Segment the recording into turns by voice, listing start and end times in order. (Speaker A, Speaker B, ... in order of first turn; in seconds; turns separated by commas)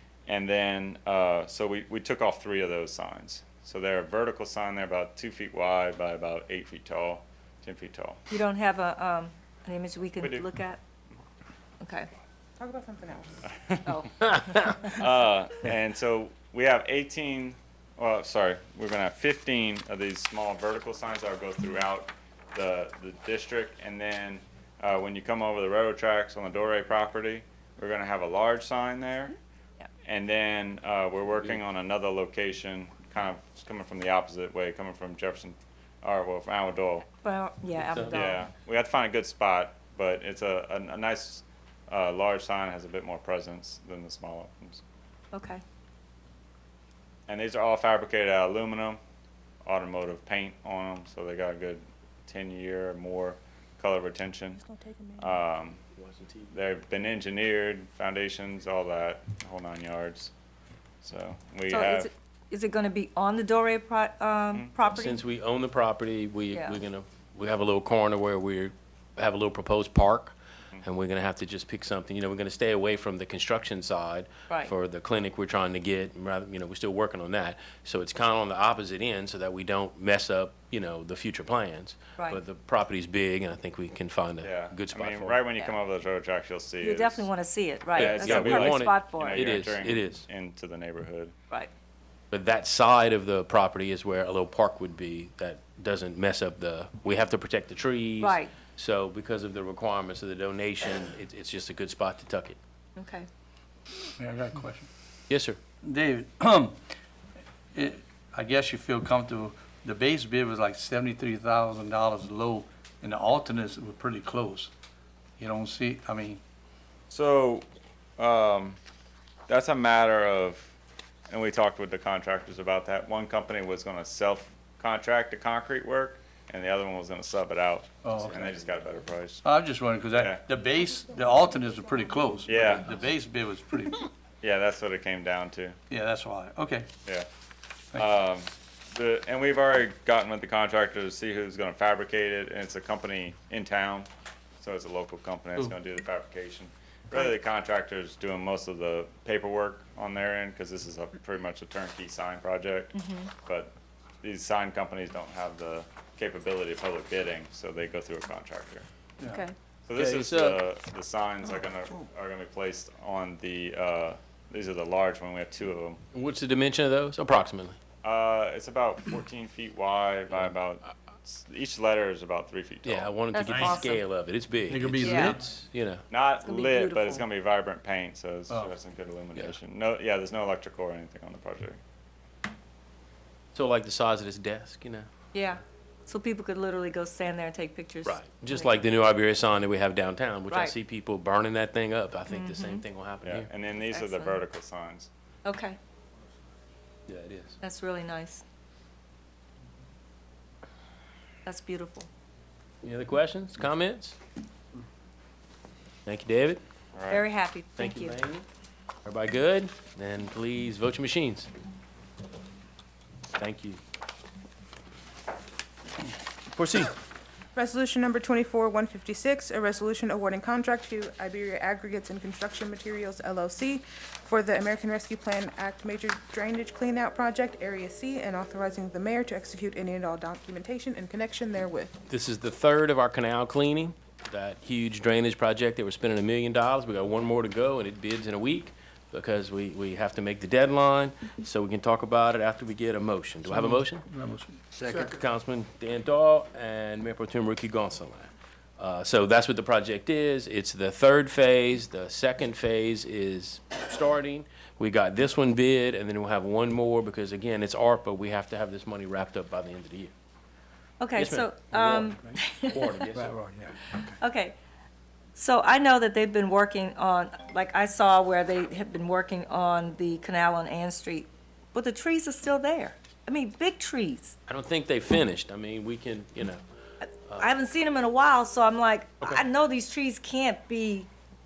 Speaker A: 0.3-8.2, Speaker B: 8.3-10.8, Speaker A: 10.2-10.4, Speaker B: 11.8-12.1, Speaker C: 12.6-13.5, Speaker B: 13.8-15.0, Speaker A: 14.8-29.4, Speaker A: 30.0-37.1, Speaker B: 37.2-38.4, Speaker D: 37.8-38.2, Speaker A: 38.1-44.8, Speaker B: 45.3-45.6, Speaker A: 47.3-49.0, Speaker A: 49.6-54.6, Speaker C: 54.6-55.4, Speaker A: 55.2-55.8, Speaker D: 56.0-56.5, Speaker A: 56.5-60.3, Speaker A: 61.0-62.1, Speaker B: 61.7-65.2, Speaker D: 64.9-85.4, Speaker B: 66.5-66.8, Speaker A: 84.4-87.3, Speaker B: 86.8-89.5, Speaker A: 88.0-91.3, Speaker D: 88.0-90.3, Speaker D: 92.3-102.6, Speaker B: 98.2-98.6, Speaker B: 103.0-103.3, Speaker E: 104.2-104.9, Speaker D: 105.3-105.6, Speaker E: 105.8-106.8, Speaker E: 107.7-114.7, Speaker E: 115.4-116.4, Speaker A: 117.1-117.7, Speaker A: 118.2-118.8, Speaker A: 119.5-120.7, Speaker A: 121.3-129.4, Speaker E: 128.0-128.4, Speaker D: 128.3-128.7, Speaker E: 129.4-134.1, Speaker A: 130.2-130.4, Speaker A: 132.4-132.9, Speaker A: 134.4-135.8, Speaker E: 135.9-136.9, Speaker A: 137.9-144.1, Speaker A: 144.6-158.9, Speaker B: 152.9-153.3, Speaker B: 159.3-159.6, Speaker A: 159.9-166.0, Speaker D: 159.9-160.6, Speaker D: 166.1-167.8, Speaker A: 168.0-173.1, Speaker D: 172.8-176.0, Speaker B: 173.3-174.0, Speaker E: 173.5-173.8, Speaker E: 174.7-175.4, Speaker B: 175.0-175.4, Speaker A: 176.1-181.8, Speaker B: 176.4-177.2, Speaker D: 183.5-185.1, Speaker B: 185.3-188.8, Speaker D: 188.0-193.5, Speaker B: 190.5-190.7, Speaker B: 192.3-192.8, Speaker A: 193.2-195.1, Speaker B: 193.9-194.4, Speaker B: 195.4-195.8, Speaker D: 197.1-197.6, Speaker B: 197.6-198.4, Speaker B: 201.4-202.1, Speaker D: 202.8-204.2, Speaker D: 206.1-206.6, Speaker A: 206.9-207.3, Speaker B: 207.1-208.2, Speaker D: 207.8-208.5, Speaker D: 209.1-211.5, Speaker D: 213.4-213.8, Speaker D: 216.5-217.0, Speaker C: 217.6-232.0, Speaker D: 232.1-244.0, Speaker E: 243.5-244.6, Speaker D: 244.8-260.1, Speaker B: 261.0-263.1, Speaker D: 261.2-263.7, Speaker B: 264.2-264.6, Speaker B: 265.4-274.4, Speaker D: 274.5-276.6, Speaker B: 277.0-281.1